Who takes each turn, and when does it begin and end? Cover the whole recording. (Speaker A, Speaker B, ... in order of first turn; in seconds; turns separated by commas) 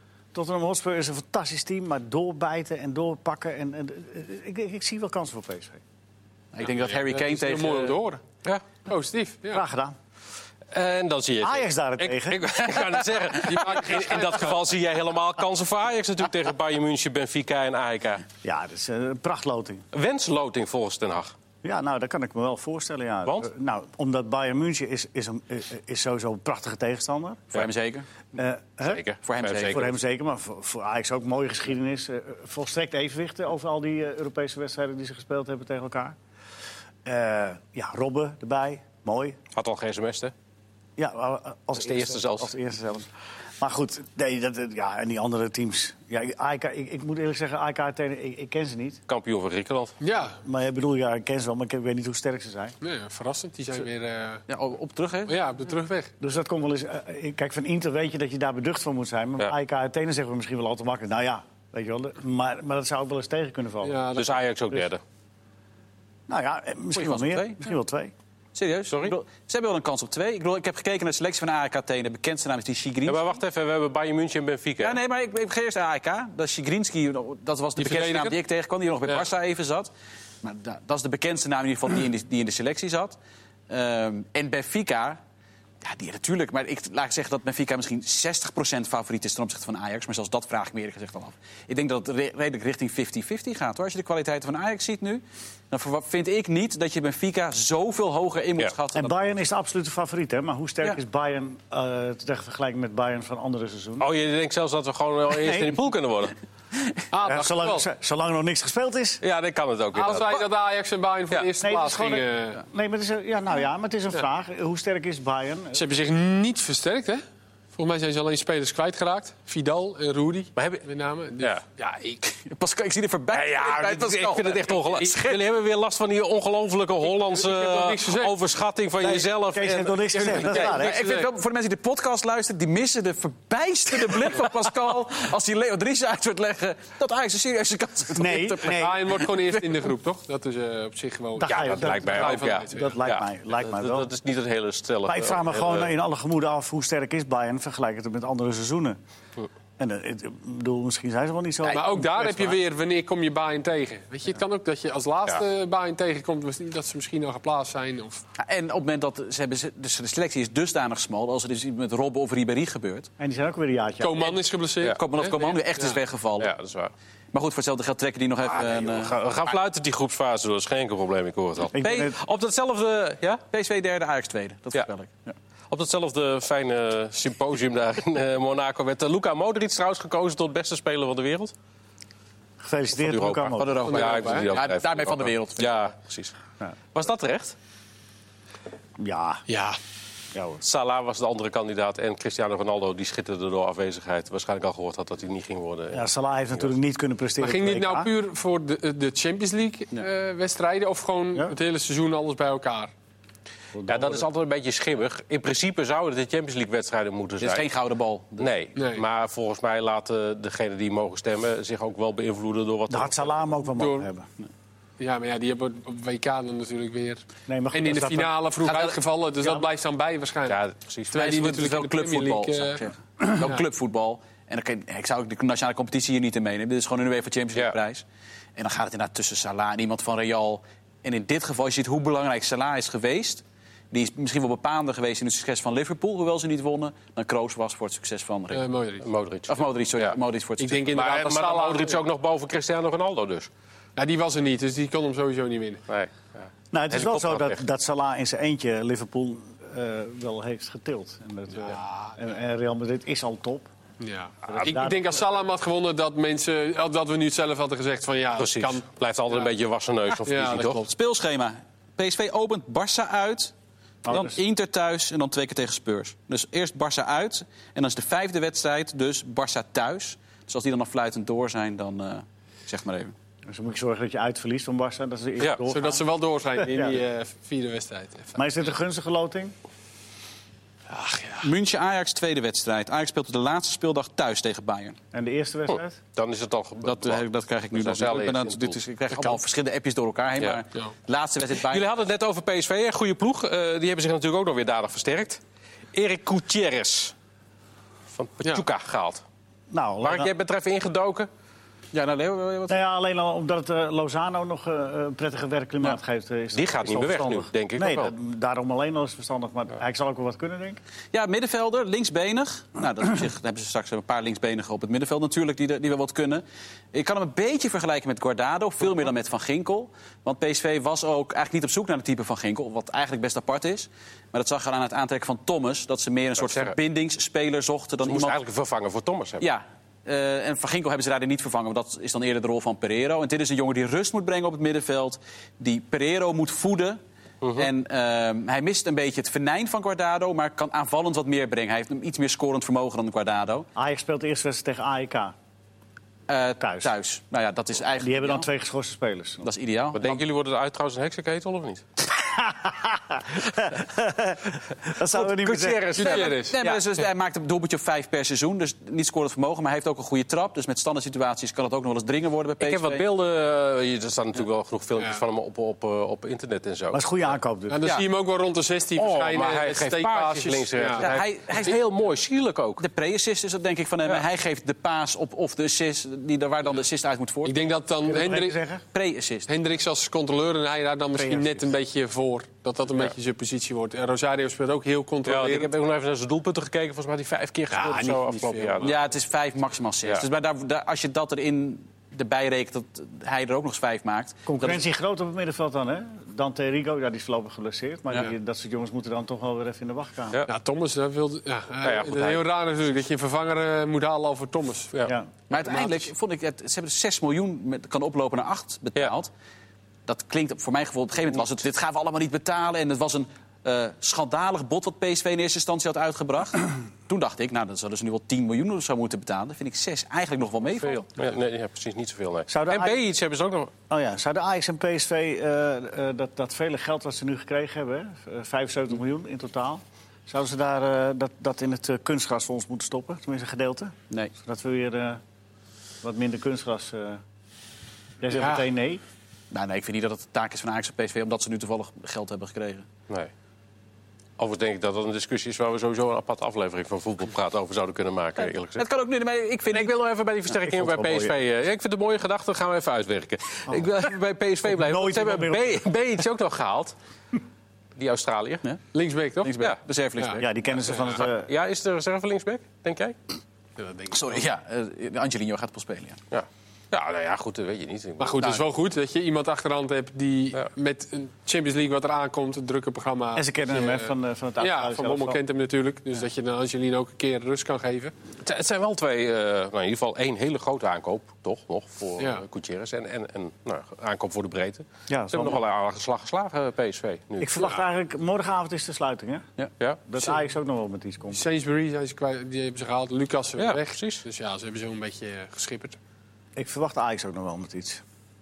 Speaker A: 0.3-5.8, Speaker B: 6.5-8.0, Speaker C: 6.8-8.2, Speaker C: 8.8-9.6, Speaker A: 9.5-9.9, Speaker D: 10.7-18.2, Speaker A: 11.4-12.5, Speaker C: 13.3-14.6, Speaker A: 18.4-19.9, Speaker D: 19.9-21.4, Speaker A: 21.6-27.5, Speaker B: 27.5-28.1, Speaker A: 28.3-29.0, Speaker D: 28.8-29.9, Speaker B: 29.2-29.9, Speaker A: 29.6-36.2, Speaker A: 37.0-39.4, Speaker D: 39.5-40.3, Speaker A: 41.0-49.0, Speaker D: 41.8-42.5, Speaker D: 49.1-50.0, Speaker C: 50.0-50.4, Speaker A: 50.4-52.8, Speaker C: 52.8-54.5, Speaker B: 54.5-55.4, Speaker C: 55.3-56.1, Speaker A: 56.2-64.0, Speaker C: 63.8-64.4, Speaker D: 64.2-65.0, Speaker A: 66.3-68.1, Speaker B: 67.0-67.7, Speaker B: 68.5-73.3, Speaker D: 68.9-69.2, Speaker D: 73.1-75.0, Speaker B: 74.8-83.2, Speaker C: 77.8-78.4, Speaker B: 83.7-85.2, Speaker B: 85.8-99.2, Speaker A: 98.9-104.1, Speaker D: 104.0-106.3, Speaker A: 105.3-105.8, Speaker C: 107.1-107.9, Speaker A: 107.2-109.2, Speaker D: 109.2-110.4, Speaker C: 109.9-112.6, Speaker B: 110.0-110.3, Speaker A: 111.6-115.8, Speaker C: 115.7-117.2, Speaker C: 117.8-122.4, Speaker D: 120.6-120.8, Speaker B: 122.5-125.4, Speaker D: 123.3-130.5, Speaker C: 127.0-128.4, Speaker A: 129.0-131.0, Speaker C: 130.2-131.3, Speaker B: 130.3-139.5, Speaker A: 138.1-139.1, Speaker C: 138.6-143.0, Speaker A: 141.4-144.1, Speaker D: 141.4-145.9, Speaker A: 145.1-149.0, Speaker A: 149.8-152.6, Speaker C: 151.7-158.2, Speaker B: 158.4-163.1, Speaker A: 163.2-164.4, Speaker C: 164.0-166.0, Speaker B: 165.0-166.5, Speaker D: 166.4-166.9, Speaker B: 167.3-169.2, Speaker D: 168.4-173.4, Speaker A: 171.7-172.2, Speaker B: 171.8-172.1, Speaker B: 173.5-175.3, Speaker D: 175.7-181.5, Speaker A: 182.6-183.7, Speaker D: 183.0-186.3, Speaker B: 183.5-185.9, Speaker C: 183.8-184.6, Speaker D: 186.9-187.6, Speaker A: 189.0-189.4, Speaker C: 189.5-189.8, Speaker A: 190.3-190.6, Speaker D: 190.6-196.1, Speaker A: 195.9-198.1, Speaker C: 197.4-202.9, Speaker A: 203.7-204.2, Speaker D: 203.9-207.7, Speaker B: 207.4-208.5, Speaker D: 208.4-213.5, Speaker C: 208.8-209.1, Speaker A: 212.9-214.3, Speaker C: 213.8-214.1, Speaker C: 215.0-222.9, Speaker A: 217.5-218.3, Speaker B: 218.6-219.0, Speaker D: 220.5-221.3, Speaker B: 221.1-228.0, Speaker B: 228.6-238.7, Speaker C: 238.5-239.1, Speaker D: 239.0-240.2, Speaker B: 239.5-240.9, Speaker C: 240.6-242.0, Speaker D: 240.9-243.5, Speaker C: 244.0-245.8, Speaker D: 245.9-247.6, Speaker A: 246.7-253.7, Speaker C: 251.5-252.2, Speaker C: 254.0-259.5, Speaker A: 254.5-255.2, Speaker D: 258.4-260.8, Speaker C: 260.2-260.9, Speaker B: 260.8-263.5, Speaker A: 264.1-264.4, Speaker B: 264.1-273.1, Speaker A: 273.5-276.0, Speaker C: 275.7-278.4, Speaker A: 276.6-277.0, Speaker A: 278.4-279.5, Speaker C: 280.9-281.5, Speaker B: 281.4-285.0, Speaker A: 285.1-286.0, Speaker D: 286.1-289.4, Speaker B: 286.8-291.9, Speaker D: 291.7-295.4, Speaker D: 295.9-297.1, Speaker D: 298.1-299.2, Speaker A: 299.7-300.3, Speaker D: 300.0-301.3, Speaker B: 301.9-302.8, Speaker A: 302.7-310.8, Speaker D: 306.5-308.1, Speaker B: 311.1-328.4, Speaker D: 326.4-326.8, Speaker D: 328.1-329.4, Speaker B: 329.4-337.0, Speaker D: 337.4-337.7, Speaker B: 337.6-343.7, Speaker A: 343.8-345.3, Speaker B: 346.3-348.5, Speaker A: 346.6-346.9, Speaker A: 348.0-349.5, Speaker B: 349.4-350.2, Speaker D: 349.9-351.8, Speaker A: 352.1-356.0, Speaker D: 355.1-356.6, Speaker C: 356.0-356.6, Speaker B: 356.0-363.0, Speaker D: 362.6-367.1, Speaker A: 366.9-367.8, Speaker C: 367.7-371.2, Speaker D: 369.0-372.9, Speaker B: 371.0-371.8, Speaker B: 372.8-377.7, Speaker C: 377.4-378.6, Speaker A: 378.1-378.8, Speaker B: 378.9-379.5, Speaker C: 379.5-385.7, Speaker A: 381.2-381.6, Speaker D: 385.3-388.9, Speaker C: 387.7-388.9, Speaker B: 388.8-394.8, Speaker A: 394.5-400.4, Speaker C: 400.5-406.1, Speaker D: 401.8-402.4, Speaker A: 405.1-405.3, Speaker B: 405.5-409.3, Speaker B: 410.1-421.1, Speaker D: 420.8-423.7, Speaker A: 422.5-423.0, Speaker A: 423.9-435.2, Speaker A: 436.0-437.2, Speaker A: 438.2-439.0, Speaker C: 438.4-438.7, Speaker B: 439.5-442.9, Speaker D: 444.4-448.9, Speaker B: 448.4-450.0, Speaker D: 449.7-457.0, Speaker A: 450.6-451.3, Speaker A: 453.7-453.9, Speaker A: 454.7-455.8, Speaker D: 458.0-458.6, Speaker C: 458.9-459.5, Speaker B: 459.4-460.5, Speaker C: 460.2-461.1, Speaker A: 460.4-461.5, Speaker D: 461.4-463.2, Speaker C: 463.8-464.4, Speaker B: 464.1-466.2, Speaker D: 466.3-468.6, Speaker C: 468.2-478.1, Speaker A: 473.4-475.4, Speaker D: 478.4-487.7, Speaker C: 482.2-482.4, Speaker A: 485.1-485.6, Speaker A: 487.4-489.5, Speaker A: 490.1-491.4, Speaker C: 491.3-496.0, Speaker D: 493.6-494.2, Speaker A: 496.6-498.0